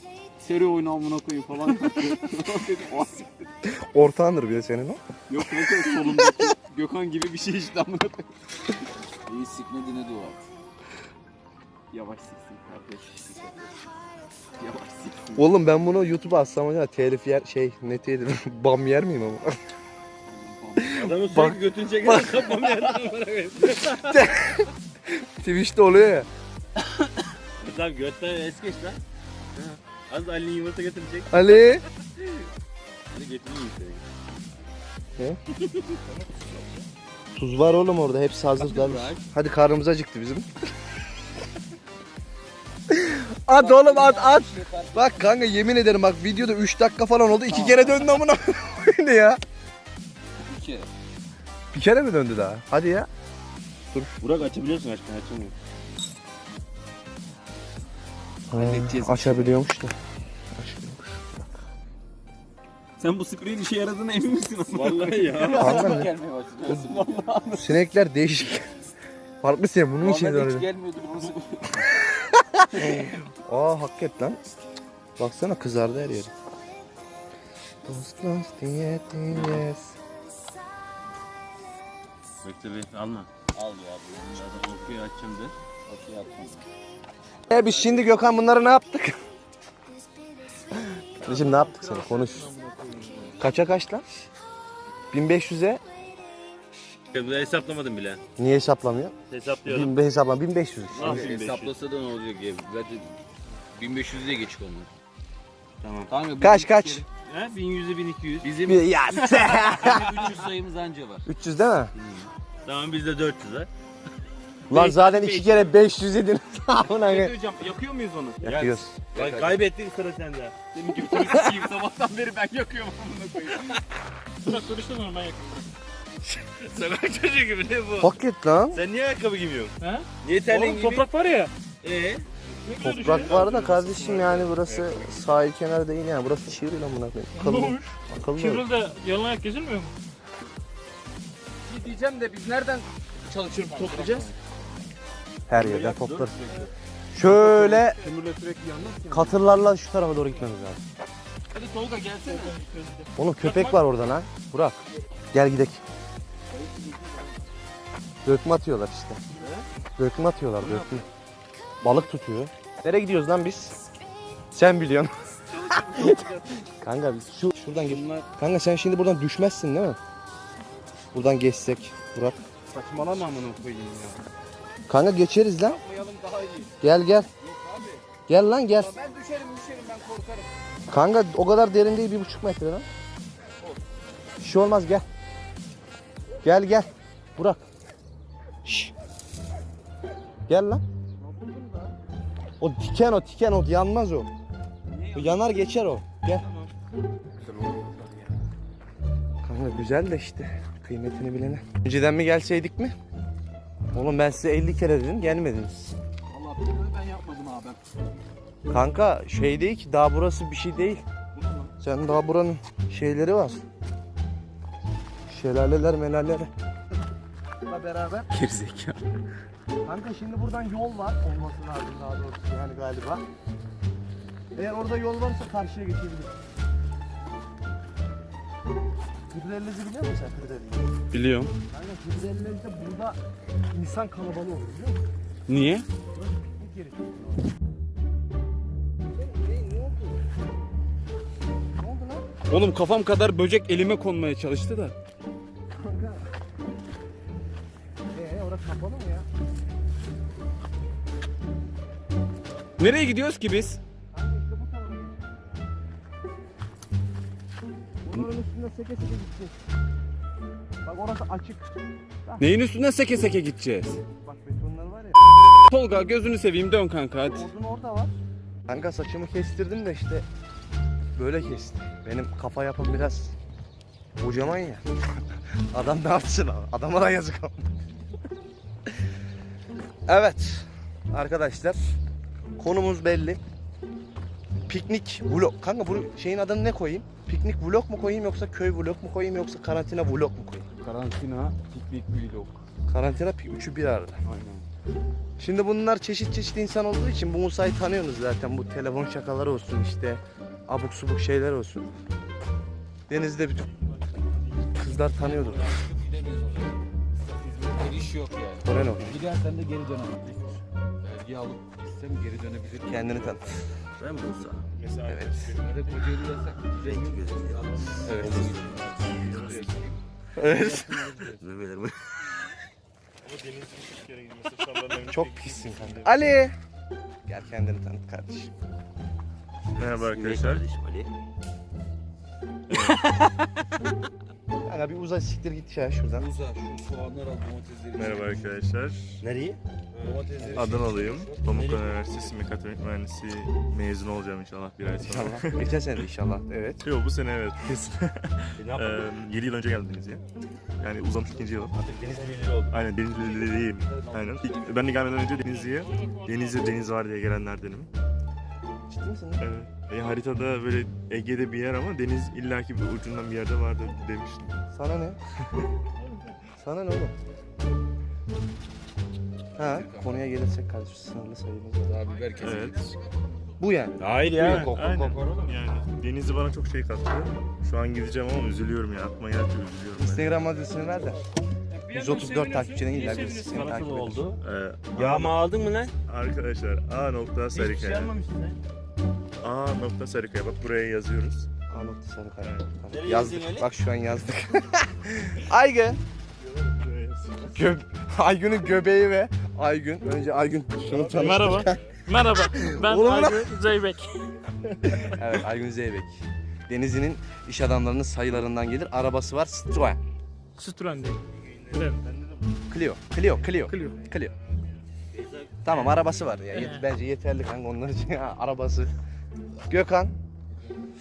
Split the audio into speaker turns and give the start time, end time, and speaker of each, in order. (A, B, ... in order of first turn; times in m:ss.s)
0:00.4-0:03.5 A
0:03.8-0:05.0 B
0:05.3-0:08.3 A
0:05.6-0:06.4 B
0:09.2-0:10.4 A
0:11.9-0:13.8 A
0:14.6-0:15.5 A
0:15.3-0:19.6 B
0:20.3-0:21.0 A
0:20.8-0:22.8 B
0:20.9-0:24.1 C
0:23.9-0:26.3 B
0:27.6-0:29.0 C
0:29.6-0:31.5 C
0:31.3-0:31.8 B
0:33.1-0:34.0 C
0:36.0-0:36.9 D
0:37.4-0:40.5 B
0:38.6-0:39.2 C
0:42.9-0:49.4 B
0:43.5-0:45.7 A
0:47.5-0:48.1 A
0:50.4-0:50.9 A
0:51.7-0:53.1 B
0:54.2-0:55.5 C
0:58.5-0:59.9 B
0:58.5-0:59.6 A
1:00.6-1:01.5 B
1:03.0-1:07.7 A
1:04.6-1:06.0 C
1:05.5-1:06.1 B
1:07.6-1:08.7 B
1:09.4-1:10.7 B
1:10.0-1:11.9 A
1:12.1-1:14.4 B
1:15.2-1:16.3 B
1:17.8-1:19.9 B
1:19.3-1:19.6 C
1:22.4-1:23.5 C
1:23.6-1:24.6 A
1:24.1-1:25.5 C
1:25.9-1:26.6 A
1:27.5-1:29.2 B
1:31.2-1:32.5 B
1:31.2-1:33.4 A
1:33.4-1:34.0 B
1:35.1-1:35.8 B
1:37.1-1:38.2 C
1:38.4-1:41.2 B
1:39.3-1:39.9 C
1:40.9-1:41.7 C
1:40.9-1:43.2 A
1:43.7-1:44.9 A
1:45.8-1:46.1 C
1:46.1-1:47.0 A
1:46.4-1:47.0 B
1:47.2-1:50.6 C
1:48.4-1:51.2 A
1:48.6-1:50.1 B
1:51.2-1:51.9 B
1:52.0-1:53.7 C
1:54.7-1:57.3 B
1:54.7-1:55.7 C
1:56.9-1:58.6 A
1:58.4-1:58.9 B
1:58.4-2:00.5 C
1:59.1-1:59.6 A
2:00.7-2:03.8 A
2:01.1-2:01.6 B
2:04.4-2:05.7 E
2:06.6-2:08.1 A
2:08.0-2:08.8 B
2:08.7-2:09.7 D
2:09.8-2:11.5 E
2:10.2-2:11.0 C
2:11.8-2:12.2 C
2:12.6-2:13.4 E
2:12.8-2:18.6 B
2:12.8-2:15.4 D
2:17.3-2:19.9 E
2:21.6-2:24.3 A
2:23.7-2:24.3 E
2:25.5-2:26.3 B
2:25.5-2:26.7 C
2:27.1-2:28.0 B
2:27.2-2:29.4 A
2:29.1-2:30.8 B
2:31.5-2:32.6 A
2:32.2-2:33.8 E
2:33.2-2:34.8 B
2:35.3-2:35.8 B
2:36.5-2:37.3 A
2:38.2-2:39.2 B
2:40.0-2:41.0 B
2:41.8-2:43.8 B
2:44.5-2:45.1 B
2:45.5-2:46.6 A
2:45.7-2:46.2 B
2:46.8-2:50.0 B
2:47.8-2:48.3 A
2:51.1-2:52.4 B
2:52.7-2:54.2 A
2:54.9-2:55.8 B
2:55.6-2:56.8 A
2:56.8-2:57.3 B
2:57.4-2:58.0 A
2:58.3-2:58.9 B
2:58.7-3:00.5 A
3:00.9-3:02.8 B
3:04.4-3:05.0 B
3:06.4-3:07.6 B
3:08.6-3:08.9 B
3:10.5-3:10.8 B
3:11.2-3:11.9 A
3:12.6-3:14.3 B
3:14.9-3:15.6 A
3:15.1-3:16.4 B
3:16.3-3:16.7 A
3:17.4-3:18.3 A
3:19.4-3:22.9 B
3:23.9-3:26.0 B
3:26.3-3:28.1 A
3:28.7-3:31.0 B
3:31.3-3:31.7 A
3:31.8-3:33.6 B
3:35.3-3:36.5 B
3:37.7-3:38.3 B
3:38.3-3:39.0 A
3:39.8-3:43.2 B
3:44.5-3:46.3 B
3:49.3-3:50.9 B
3:51.1-3:51.5 A
3:51.7-3:53.2 B
3:53.7-3:55.0 B
3:55.5-3:55.8 A
3:56.2-3:57.4 B
3:59.2-4:00.2 B
4:01.8-4:02.3 B
4:02.5-4:04.9 A
4:05.8-4:06.3 B
4:08.1-4:09.3 B
4:12.8-4:13.8 A
4:14.1-4:15.4 B
4:18.0-4:19.6 B
4:20.8-4:22.5 B
4:22.4-4:24.0 A
4:24.2-4:25.2 B
4:25.6-4:27.5 A
4:27.3-4:28.1 B
4:28.7-4:30.2 B
4:31.2-4:33.3 B
4:34.2-4:34.8 B
4:35.7-4:37.6 B
4:40.1-4:41.9 B
4:42.6-4:43.4 B
4:44.7-4:50.6 B
4:50.7-4:52.6 A
4:52.9-4:54.2 B
4:54.2-4:54.6 A
4:55.4-5:01.9 B
5:03.1-5:03.7 B
5:04.7-5:05.8 B
5:05.1-5:13.6 A
5:08.6-5:09.1 B
5:12.8-5:13.6 B
5:14.0-5:14.6 C
5:14.7-5:16.0 D
5:15.0-5:15.5 B
5:15.6-5:21.4 A
5:16.8-5:19.6 C
5:18.0-5:18.5 B
5:19.0-5:19.8 D
5:20.4-5:21.1 B
5:21.4-5:21.9 C
5:23.2-5:26.2 D
5:25.1-5:26.5 B
5:27.2-5:28.5 B
5:29.8-5:30.6 D
5:29.8-5:31.1 C
5:32.7-5:33.0 D
5:34.6-5:36.3 B
5:36.1-5:38.5 A
5:38.0-5:39.2 D
5:39.2-5:40.2 C
5:40.0-5:41.8 A
5:40.5-5:45.7 D
5:41.4-5:42.3 C
5:45.0-5:46.8 B
5:46.8-5:50.2 D
5:48.6-5:49.1 C
5:50.8-5:51.7 D
5:51.7-5:52.7 C
5:51.8-5:52.1 A
5:52.7-5:57.9 D
5:53.1-5:55.3 A
5:55.4-5:56.9 E
5:58.9-5:59.4 B
5:59.4-6:04.6 D
6:04.7-6:05.2 B
6:06.0-6:06.3 E
6:06.6-6:07.1 B
6:09.6-6:12.0 B
6:09.6-6:10.2 A
6:11.8-6:13.0 A
6:12.4-6:12.9 D
6:13.6-6:14.9 B
6:14.0-6:15.5 C
6:14.2-6:15.4 A
6:14.3-6:20.5 D
6:20.0-6:21.2 B
6:21.7-6:23.8 E
6:21.9-6:24.3 B
6:23.3-6:24.4 C
6:24.4-6:25.4 D
6:24.9-6:25.9 C
6:26.0-6:28.1 D
6:27.5-6:28.6 C
6:29.4-6:31.5 D
6:31.7-6:36.0 B
6:32.4-6:32.7 D
6:32.9-6:33.7 C
6:36.4-6:37.7 D
6:37.5-6:41.8 B
6:40.9-6:42.0 D
6:41.1-6:44.1 E
6:42.3-6:43.5 B
6:44.6-6:45.3 D
6:45.1-6:50.0 B
6:50.6-6:52.0 E
6:51.2-6:52.5 D
6:52.7-6:54.3 B
6:53.6-6:54.8 D
6:53.7-6:54.0 E
6:55.1-6:55.9 C
6:55.6-6:58.9 B
6:56.5-6:56.8 E
6:59.7-7:00.2 B